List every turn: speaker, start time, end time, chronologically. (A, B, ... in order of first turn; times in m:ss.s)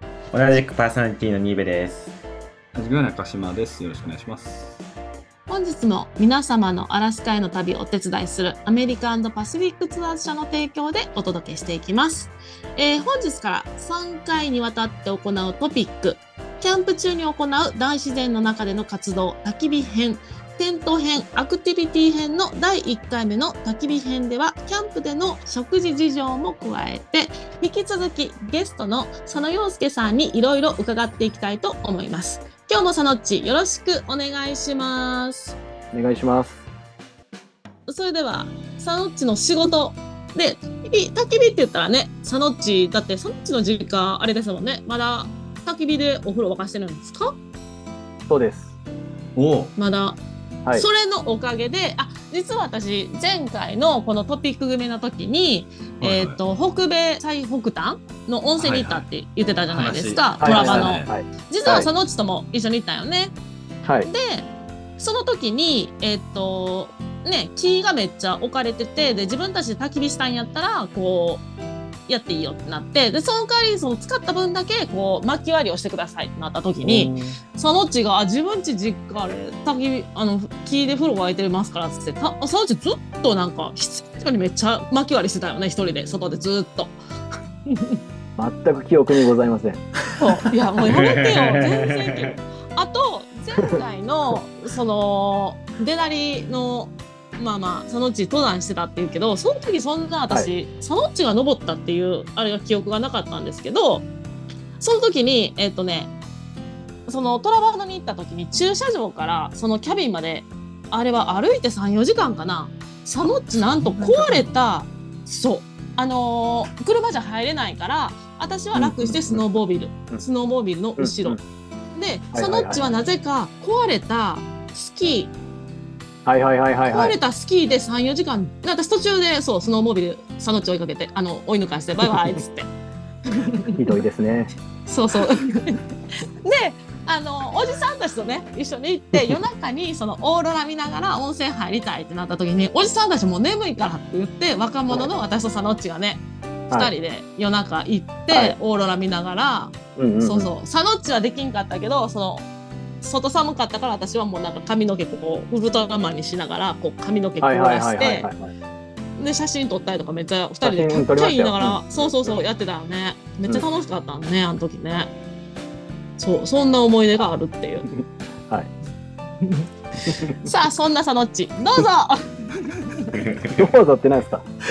0:00.3-0:02.2 A
0:02.8-0:04.8 B
0:05.5-0:35.6 C
0:35.9-0:36.6 D
0:37.9-0:47.4 C
0:48.3-0:48.8 D
0:49.4-0:49.7 B
0:49.8-0:50.2 C
0:50.7-1:03.3 C
0:56.0-0:56.4 B
0:58.6-0:59.1 B
0:59.7-1:01.1 B
1:00.4-1:01.9 D
1:03.8-1:04.1 D
1:04.1-1:04.5 C
1:05.0-1:11.4 C
1:12.1-1:27.0 C
1:16.8-1:17.4 D
1:27.7-1:28.0 C
1:28.4-1:29.8 D
1:30.2-1:44.1 C
1:30.9-1:32.4 A
1:44.8-1:46.1 C
1:47.1-2:01.4 C
1:53.2-1:54.5 B
1:58.8-1:59.4 D
2:01.0-2:01.4 D
2:02.0-2:05.3 C
2:02.3-2:02.8 D
2:06.2-2:07.2 D
2:06.9-2:12.7 C
2:12.1-2:12.4 D
2:13.4-2:13.7 C
2:13.7-2:14.5 D
2:14.9-2:15.8 C
2:16.4-2:32.5 C
2:28.3-2:28.6 D
2:30.0-2:30.5 D
2:33.0-2:38.3 C
2:37.4-2:38.5 D
2:39.2-2:45.1 C
2:40.6-2:42.4 D
2:46.2-2:47.9 C
2:50.1-2:50.5 D
2:50.4-2:53.1 C
2:53.3-2:53.6 A
2:53.6-2:54.5 D